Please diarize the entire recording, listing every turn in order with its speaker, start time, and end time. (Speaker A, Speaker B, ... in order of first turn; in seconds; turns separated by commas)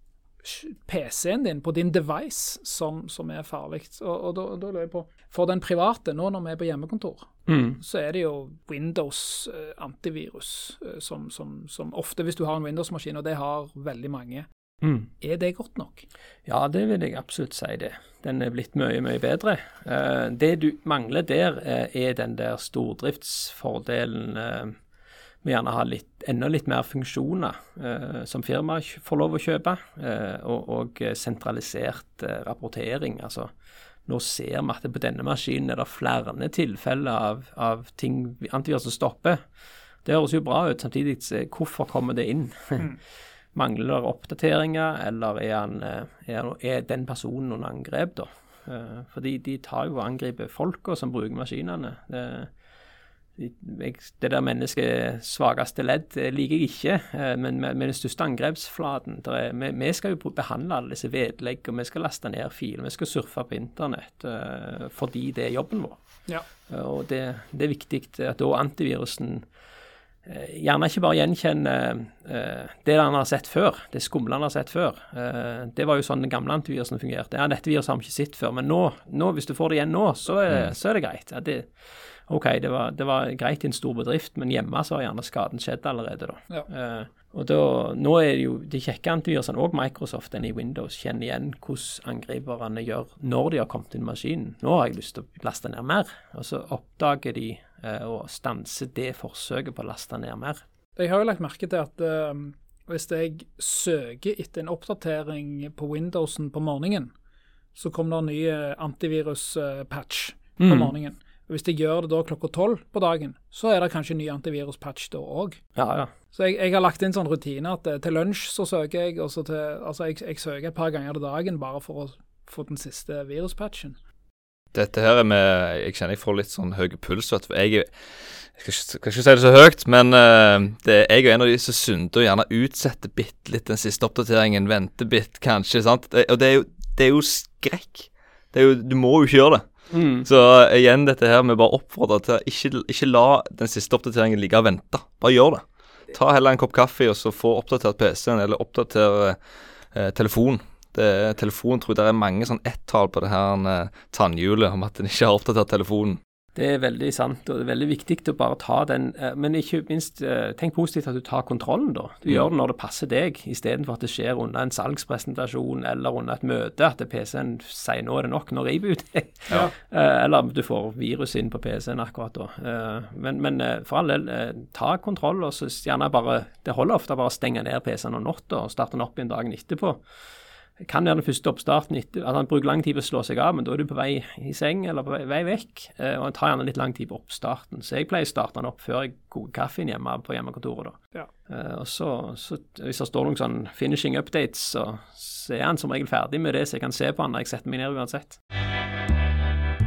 Speaker A: 0.4-14.5, Speaker B: 7.5-7.8, Speaker B: 14.8-15.1, Speaker A: 15.2-16.1, Speaker B: 16.4-24.8, Speaker B: 25.4-33.5, Speaker B: 34.1-39.4, Speaker B: 40.0-42.9, Speaker B: 43.5-52.5, Speaker B: 53.4-66.0, Speaker B: 66.7-69.4, Speaker B: 70.2-81.7, Speaker B: 82.3-100.6, Speaker A: 101.0-107.1, Speaker A: 107.7-115.6, Speaker B: 110.6-110.9, Speaker B: 115.8-116.1, Speaker A: 116.3-124.0, Speaker C: 124.7-127.9, Speaker C: 128.5-139.7, Speaker B: 139.9-140.2, Speaker C: 140.2-149.4, Speaker C: 149.9-156.2, Speaker B: 156.5-180.0, Speaker B: 180.8-198.4